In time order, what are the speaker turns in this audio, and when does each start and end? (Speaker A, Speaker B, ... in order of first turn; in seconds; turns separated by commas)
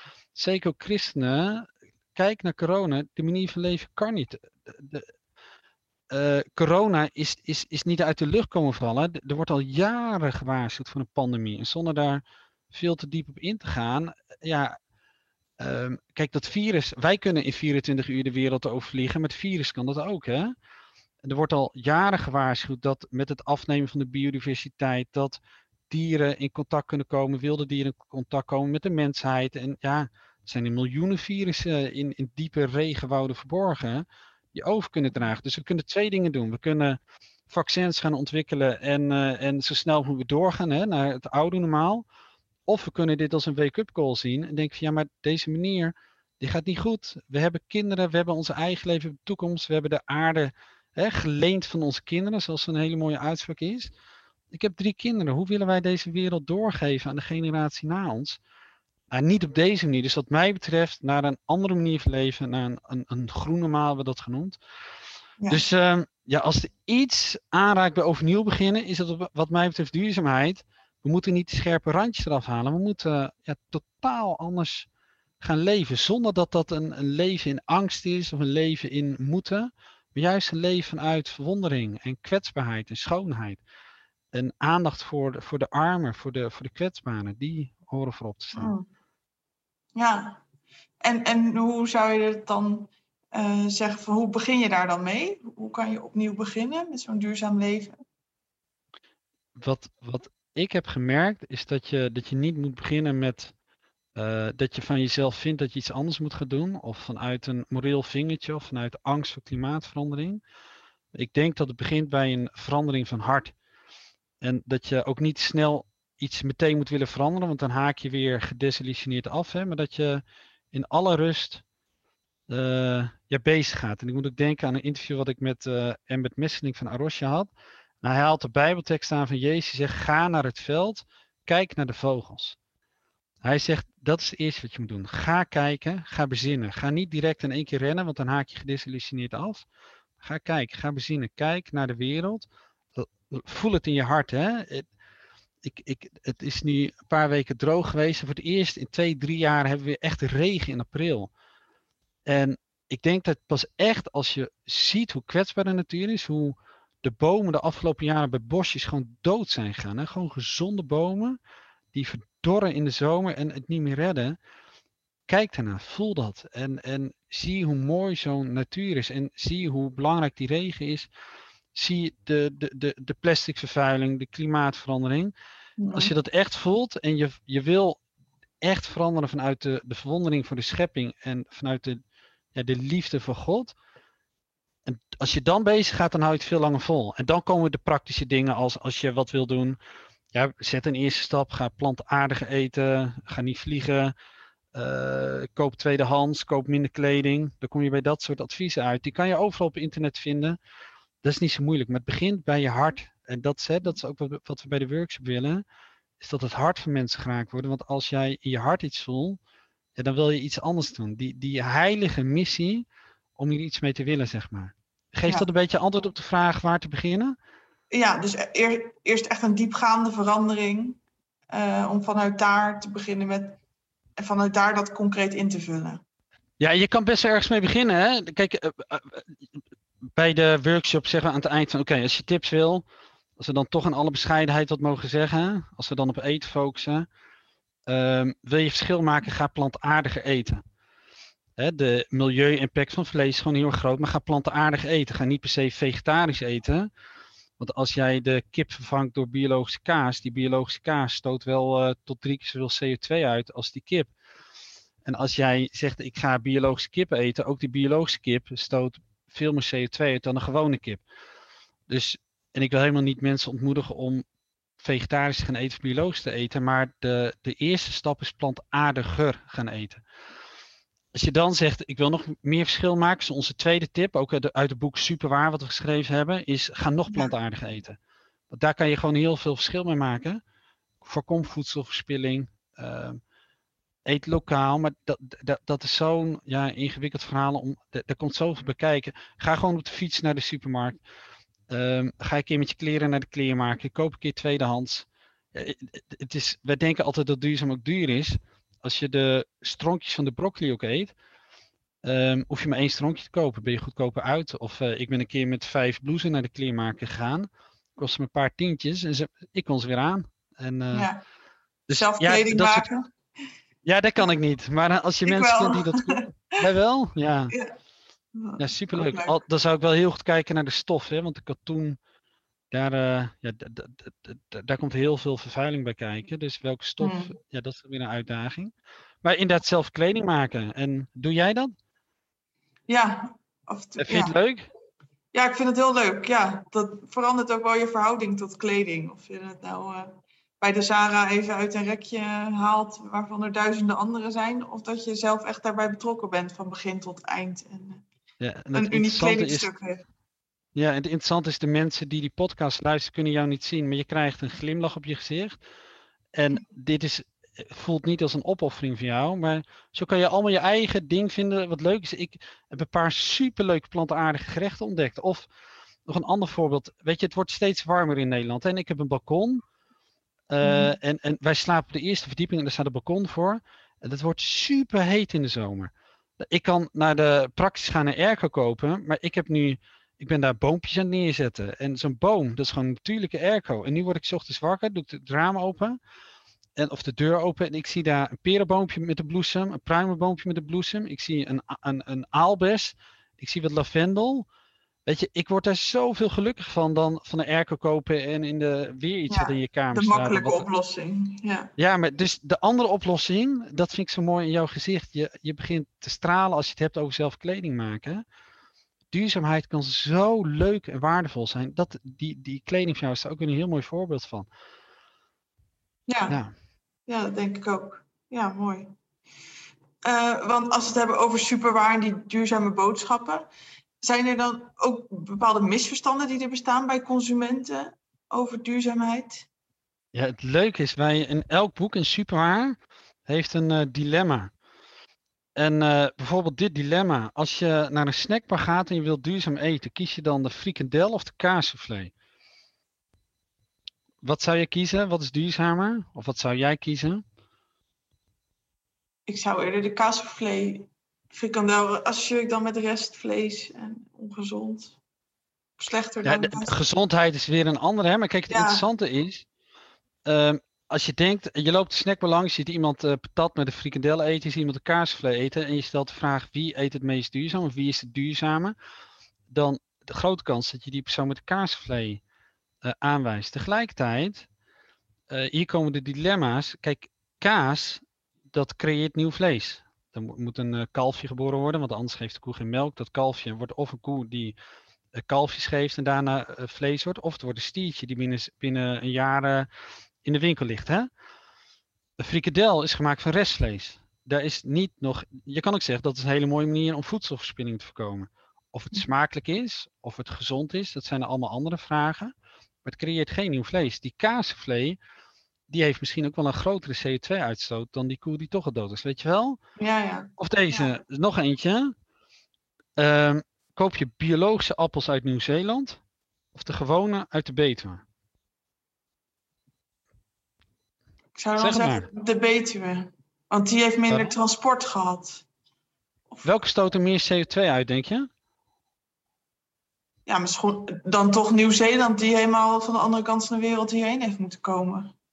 Speaker A: 0.3-5.1, Speaker A: 6.1-14.8, Speaker A: 15.6-20.5, Speaker A: 21.2-42.0, Speaker A: 42.7-53.9, Speaker A: 54.5-58.4, Speaker A: 59.1-64.6, Speaker A: 65.5-74.9, Speaker A: 75.4-83.6, Speaker A: 84.3-88.7, Speaker B: 88.5-88.9, Speaker B: 90.0-90.4, Speaker B: 91.0-98.0, Speaker A: 99.6-103.5, Speaker A: 104.2-110.4, Speaker A: 111.1-113.5, Speaker A: 114.4-121.6, Speaker A: 122.5-127.5, Speaker A: 128.0-132.6, Speaker A: 133.4-139.7, Speaker A: 140.2-144.9, Speaker A: 145.6-151.3, Speaker A: 152.3-161.4, Speaker A: 161.9-164.4, Speaker A: 165.3-171.1, Speaker A: 171.7-175.3, Speaker B: 175.8-176.1, Speaker A: 175.9-178.0, Speaker A: 178.6-182.0, Speaker A: 182.5-183.8, Speaker A: 184.9-189.8, Speaker A: 190.3-194.1, Speaker A: 194.8-200.6, Speaker A: 201.2-205.6, Speaker A: 206.2-209.4, Speaker A: 210.0-212.9, Speaker A: 213.4-217.4, Speaker B: 217.9-221.0, Speaker B: 221.5-223.6, Speaker B: 224.2-226.0, Speaker A: 226.6-229.2, Speaker A: 230.2-232.8, Speaker A: 233.4-237.1, Speaker A: 237.9-240.6, Speaker A: 241.6-246.9, Speaker A: 247.6-254.1, Speaker A: 255.1-261.0, Speaker A: 261.9-264.2, Speaker A: 264.8-270.0, Speaker A: 271.1-278.0, Speaker A: 278.5-280.4, Speaker A: 281.0-283.2, Speaker A: 284.1-291.0, Speaker A: 291.7-301.1, Speaker A: 302.0-311.1, Speaker B: 310.9-311.2, Speaker A: 311.9-312.9, Speaker B: 311.9-313.1, Speaker A: 313.9-317.6, Speaker B: 315.2-316.6, Speaker B: 317.5-317.8, Speaker B: 318.4-319.4, Speaker A: 318.6-322.0, Speaker A: 322.7-331.7, Speaker B: 327.0-327.3, Speaker B: 332.9-334.4, Speaker A: 334.0-334.7, Speaker B: 335.3-348.0, Speaker A: 348.4-349.7, Speaker B: 348.7-350.0, Speaker A: 350.8-355.6, Speaker A: 356.4-365.5, Speaker A: 366.1-369.6, Speaker A: 370.5-386.0, Speaker B: 370.6-370.9, Speaker A: 386.8-394.5, Speaker A: 395.1-400.7, Speaker B: 399.3-401.7, Speaker A: 401.8-408.2, Speaker A: 409.1-414.5, Speaker B: 416.1-416.4, Speaker B: 417.1-418.9, Speaker B: 420.0-423.5, Speaker B: 424.0-429.5, Speaker A: 430.1-434.5, Speaker A: 435.6-442.1, Speaker A: 444.2-447.2, Speaker B: 449.3-454.9, Speaker B: 455.8-456.7, Speaker A: 456.2-459.5, Speaker B: 458.5-458.9, Speaker A: 460.3-468.8, Speaker A: 469.5-472.2, Speaker A: 472.8-474.5, Speaker A: 475.3-484.6, Speaker A: 485.2-489.7, Speaker A: 490.2-491.1, Speaker A: 492.2-502.3, Speaker A: 502.8-505.0, Speaker A: 505.7-509.6, Speaker B: 509.8-510.9, Speaker A: 510.4-511.9, Speaker A: 513.0-516.0, Speaker A: 516.5-518.0, Speaker B: 521.4-525.4, Speaker A: 521.6-522.1, Speaker A: 524.1-524.4, Speaker A: 526.4-528.3, Speaker B: 530.3-535.1